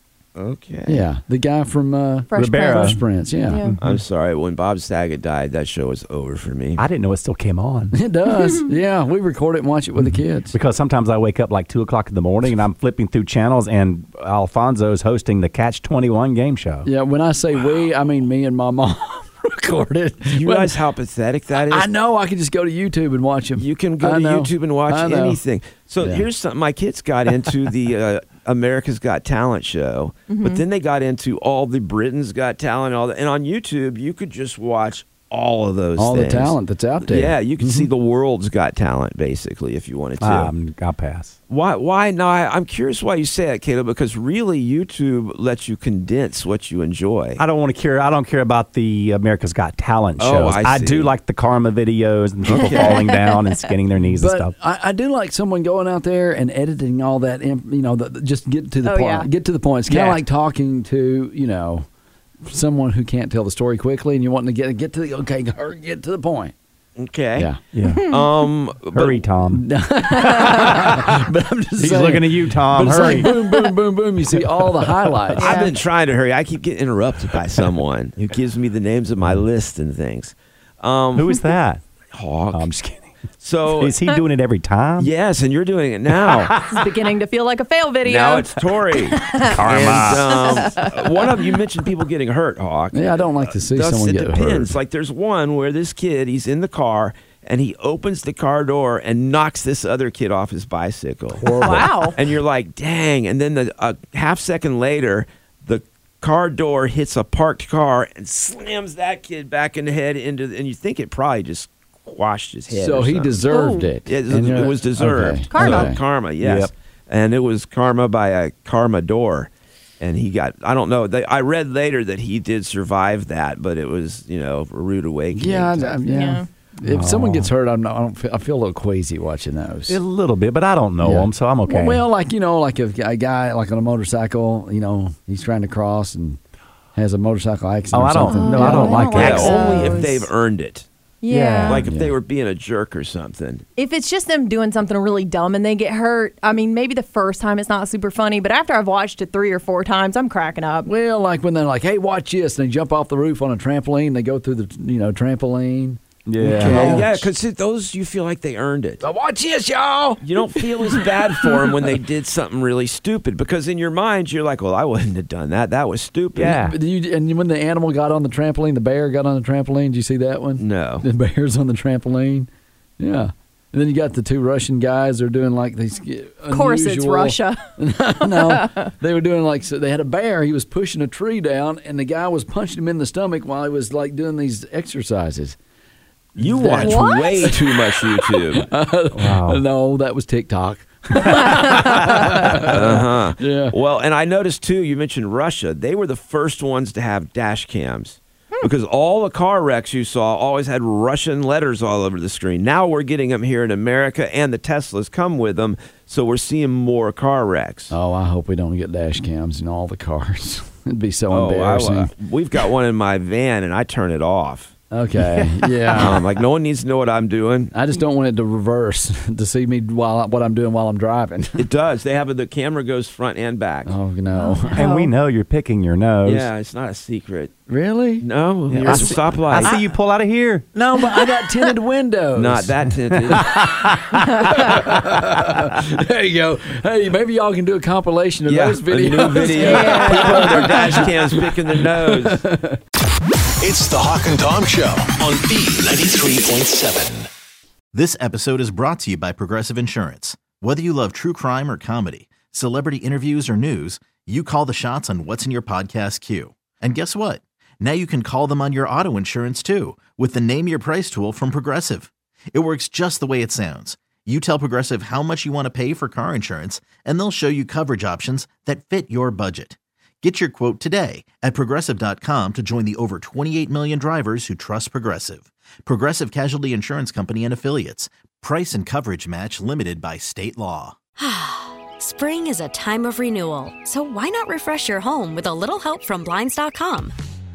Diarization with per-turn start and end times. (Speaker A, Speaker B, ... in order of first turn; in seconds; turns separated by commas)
Speaker A: 0.4-1.1, Speaker B: 0.9-3.6, Speaker C: 2.3-3.8, Speaker D: 2.3-3.0, Speaker D: 3.6-4.0, Speaker A: 3.8-6.8, Speaker D: 6.8-8.0, Speaker B: 7.9-10.6, Speaker D: 10.1-16.9, Speaker B: 16.9-20.8, Speaker A: 20.3-21.9, Speaker B: 21.6-25.4, Speaker A: 23.6-40.5, Speaker C: 30.3-30.6, Speaker B: 36.0-37.9, Speaker D: 40.2-41.4, Speaker A: 41.5-47.4, Speaker D: 47.4-54.5, Speaker A: 50.2-51.1, Speaker A: 52.5-53.0, Speaker C: 52.5-53.7, Speaker B: 54.0-61.9, Speaker C: 58.8-59.3, Speaker A: 59.9-60.2, Speaker B: 62.4-66.5, Speaker A: 67.0-67.5, Speaker D: 67.7-68.1, Speaker C: 67.9-68.2, Speaker A: 68.0-69.2, Speaker D: 68.9-69.7, Speaker B: 69.5-75.5, Speaker C: 70.3-70.6, Speaker D: 70.3-70.9, Speaker D: 71.8-73.3, Speaker A: 75.4-81.4, Speaker C: 75.4-75.8, Speaker D: 81.2-81.8, Speaker A: 82.1-82.7, Speaker D: 82.5-83.1, Speaker A: 83.4-84.0, Speaker D: 83.7-85.1, Speaker A: 85.0-86.5, Speaker D: 86.1-86.9, Speaker C: 86.7-88.6, Speaker A: 88.0-113.3, Speaker C: 89.1-91.1, Speaker D: 89.3-90.9, Speaker B: 92.9-94.7, Speaker B: 101.3-102.1, Speaker C: 101.6-102.1, Speaker B: 112.7-116.0, Speaker C: 113.5-113.9, Speaker A: 114.0-126.1, Speaker C: 115.5-115.9, Speaker D: 116.4-116.7, Speaker B: 125.3-130.0, Speaker C: 126.1-126.5, Speaker D: 126.8-127.5, Speaker D: 129.9-132.0, Speaker B: 131.0-136.4, Speaker B: 136.9-139.9, Speaker D: 137.9-139.9, Speaker C: 138.2-140.3, Speaker A: 138.6-140.9, Speaker C: 141.2-141.8, Speaker D: 141.3-141.8, Speaker A: 141.7-143.6, Speaker B: 141.7-142.2, Speaker C: 143.8-150.9, Speaker B: 150.8-157.3, Speaker D: 156.3-157.1, Speaker A: 156.6-159.0, Speaker B: 159.0-161.9, Speaker A: 160.2-166.6, Speaker D: 166.4-166.8, Speaker B: 166.4-185.6, Speaker A: 170.6-171.1, Speaker C: 176.5-177.6, Speaker C: 178.2-178.9, Speaker A: 186.4-188.7, Speaker B: 186.4-193.7, Speaker C: 186.8-187.6, Speaker D: 189.1-189.6, Speaker C: 191.2-192.4, Speaker A: 192.7-207.9, Speaker B: 207.9-212.1, Speaker A: 211.3-214.7, Speaker B: 214.9-216.2, Speaker D: 215.3-215.9, Speaker A: 216.0-217.7, Speaker B: 217.7-221.7, Speaker A: 221.6-223.9, Speaker B: 223.9-224.9, Speaker C: 224.3-225.1, Speaker D: 224.7-226.5, Speaker A: 226.2-227.5, Speaker B: 227.7-228.2, Speaker A: 228.2-229.7, Speaker D: 228.7-230.7, Speaker B: 228.8-229.8, Speaker B: 230.7-232.7, Speaker A: 232.3-233.6, Speaker B: 233.3-242.8, Speaker D: 233.3-234.3, Speaker C: 234.2-234.7, Speaker A: 238.4-242.4, Speaker C: 239.5-240.7, Speaker E: 243.6-247.3, Speaker F: 247.9-280.9, Speaker G: 281.2-287.1